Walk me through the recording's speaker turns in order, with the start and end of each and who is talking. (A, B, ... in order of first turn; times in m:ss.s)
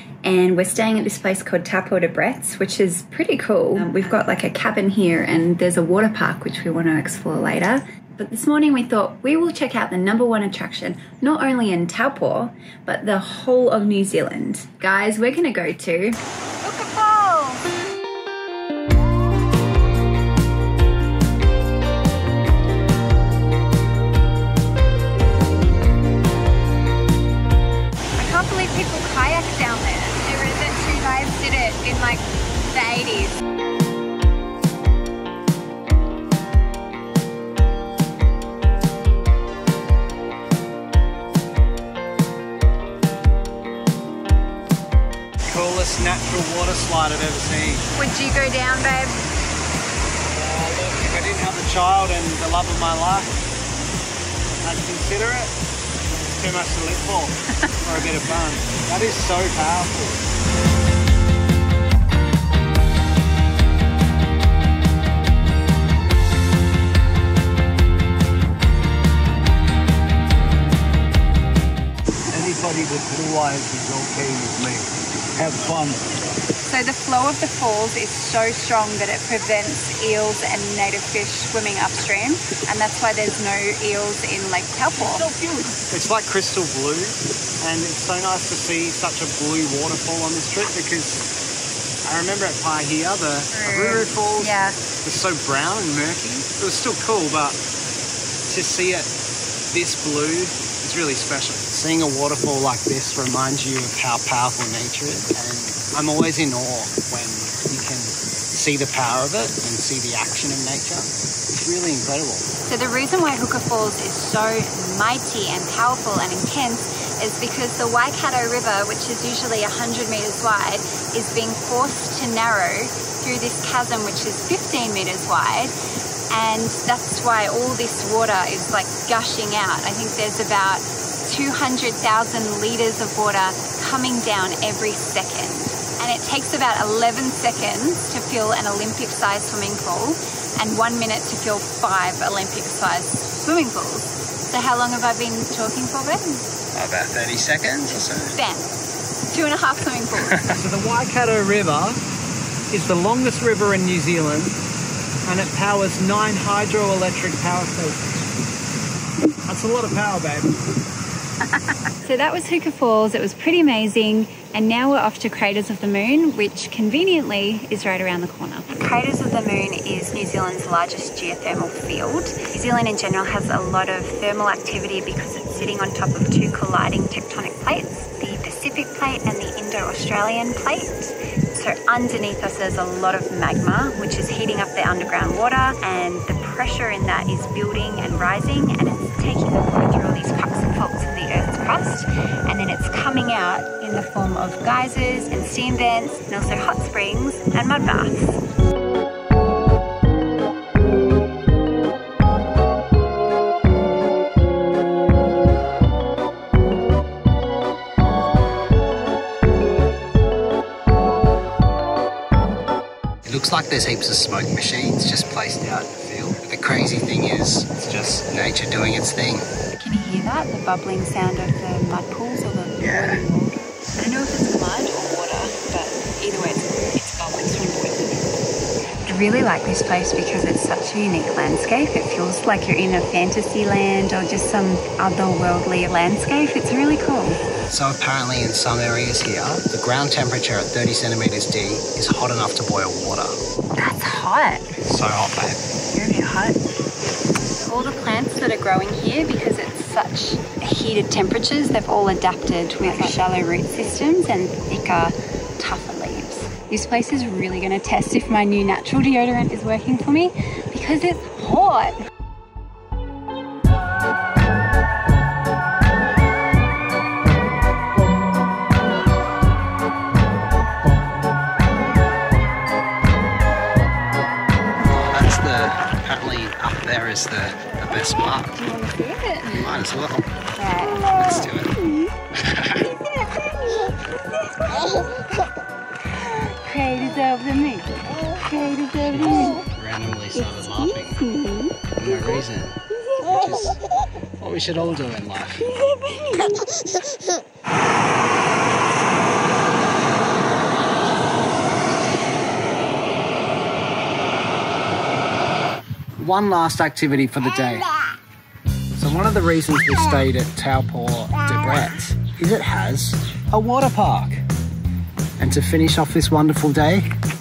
0:00.2-0:17.6 A
0:28.2-0:33.4 A
0:45.5-0:47.8 B
0:48.0-0:49.2 A
0:50.3-0:53.3 B
0:54.6-0:55.5 B
0:56.4-0:57.3 B
0:57.6-0:58.0 A
0:57.8-1:00.2 B
1:12.3-1:14.9 B
1:15.4-1:16.0 B
1:16.6-1:25.3 A
1:25.0-1:31.2 B
1:32.0-1:37.6 B
1:33.5-1:34.8 A
1:38.5-1:39.1 B
1:39.7-1:52.5 B
1:52.6-2:05.7 A
2:06.3-2:26.4 A
2:26.7-2:28.4 B
2:27.9-2:28.7 A
2:29.3-2:30.4 A
2:30.2-2:32.0 B
2:32.7-2:34.6 B
2:35.3-2:38.0 B
2:39.4-2:40.6 B
2:42.0-3:18.4 A
3:33.2-3:39.5 B
3:39.7-3:48.3 A
3:42.8-3:43.2 B
3:49.0-3:57.4 A
3:57.7-4:03.4 B
4:03.8-4:04.7 A
4:04.8-4:05.6 B
4:05.9-4:06.6 A
4:07.6-4:22.0 A
4:34.8-4:38.6 B
4:38.4-4:39.7 A
4:39.5-4:40.3 B
4:40.6-4:42.1 A
4:41.1-4:41.8 B
4:42.4-4:42.8 B
4:42.7-4:45.2 A
4:46.1-4:49.6 A
4:49.1-4:51.2 B
4:50.3-4:51.8 A
4:52.0-4:53.8 B
4:54.4-4:55.7 B
4:55.6-4:56.8 A
5:06.2-5:07.9 B
5:09.0-5:14.4 B
5:15.4-5:17.1 B